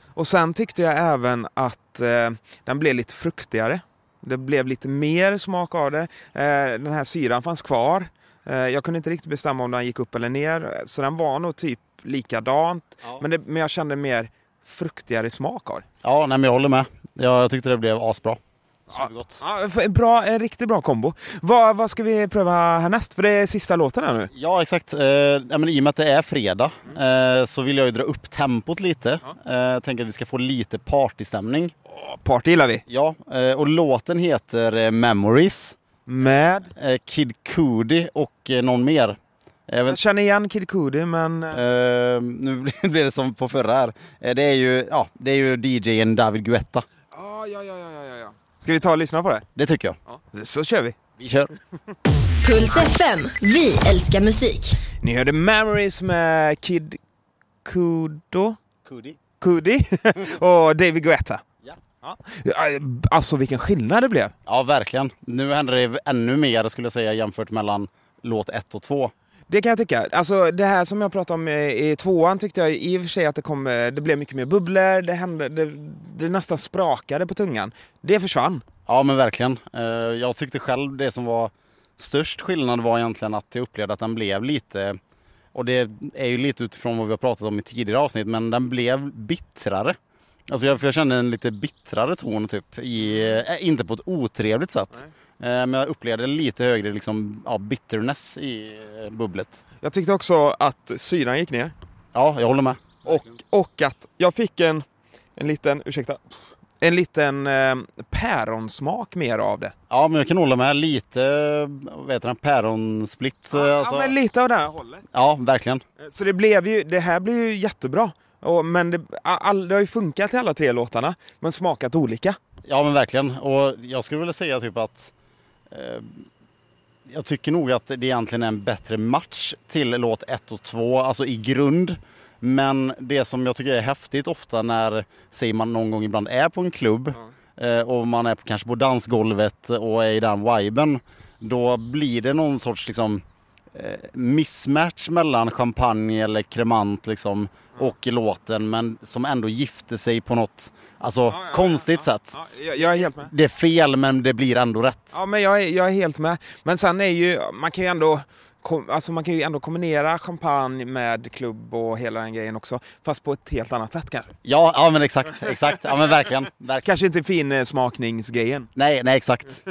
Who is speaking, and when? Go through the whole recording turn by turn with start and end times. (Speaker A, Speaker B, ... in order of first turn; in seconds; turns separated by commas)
Speaker A: 0.2-15.8, Speaker B: 16.0-19.4, Speaker A: 18.9-24.3, Speaker B: 24.3-31.7, Speaker A: 31.9-32.8, Speaker B: 32.9-35.8, Speaker A: 36.1-36.7, Speaker B: 36.8-39.2, Speaker B: 39.7-40.0, Speaker A: 39.9-41.6, Speaker B: 41.5-46.9, Speaker A: 47.1-49.5, Speaker B: 49.6-50.0, Speaker A: 50.1-51.0, Speaker B: 51.2-51.5, Speaker C: 52.4-54.8, Speaker A: 55.0-57.0, Speaker A: 57.6-58.6, Speaker B: 58.9-59.2, Speaker A: 59.4-61.4, Speaker A: 62.0-64.3, Speaker B: 64.5-69.1, Speaker A: 69.5-78.6, Speaker B: 78.9-85.0, Speaker B: 85.5-90.0, Speaker B: 90.5-99.6, Speaker A: 99.8-101.7, Speaker B: 102.1-103.0, Speaker A: 103.0-104.8, Speaker A: 105.4-106.2, Speaker A: 106.8-109.7, Speaker B: 109.9-114.1, Speaker A: 113.5-115.0, Speaker B: 115.1-115.8, Speaker A: 116.0-122.4, Speaker B: 122.7-125.1, Speaker B: 125.7-126.3, Speaker B: 127.1-143.2, Speaker B: 143.7-152.4, Speaker A: 151.3-153.3, Speaker B: 153.2-155.1, Speaker A: 155.1-164.3, Speaker B: 164.4-166.9, Speaker A: 166.8-168.7, Speaker B: 168.8-169.6